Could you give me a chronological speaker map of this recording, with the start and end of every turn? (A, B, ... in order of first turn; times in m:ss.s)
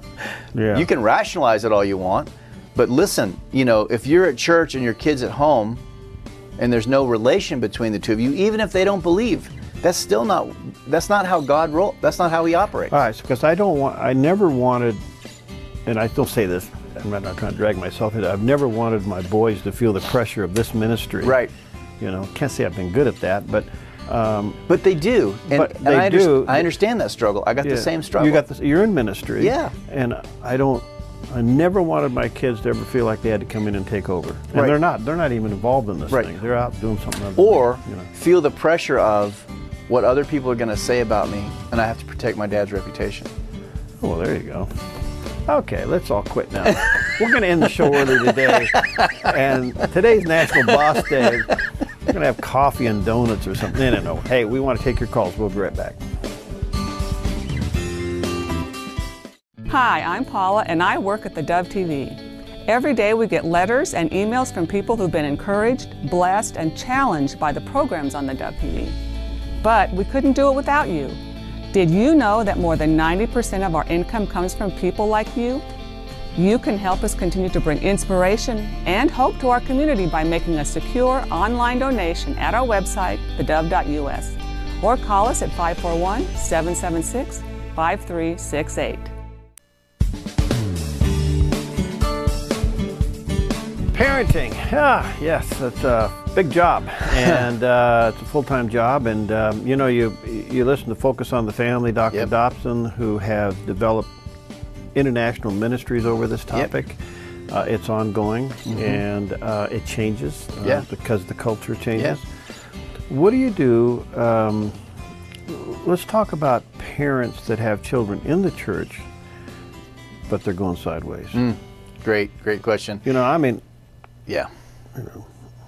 0:00.5-0:00.9 A
0:00.7-0:05.8 B
0:06.6-0:12.9 B
0:12.9-0:15.0 A
0:15.9-0:21.4 A
0:21.2-0:21.5 B
0:22.0-0:24.6 A
0:24.7-0:28.4 B
0:25.5-0:26.7 A
0:27.6-0:38.1 A
0:29.4-0:29.7 B
0:37.4-0:43.3 B
0:44.0-0:44.8 A
0:45.4-0:51.6 A
0:48.0-0:49.3 B
0:50.6-0:51.3 B
0:52.1-0:56.0 A
0:59.7-1:09.0 C
1:09.6-1:11.2 C
1:11.7-1:15.6 C
1:16.3-1:29.1 C
1:33.9-1:44.1 A
1:44.9-1:52.3 A
1:48.7-1:49.0 B
1:53.1-1:54.8 A
1:55.5-1:59.1 A
2:00.3-2:01.4 A
2:01.3-2:03.0 B
2:03.0-2:03.6 A
2:04.9-2:05.2 A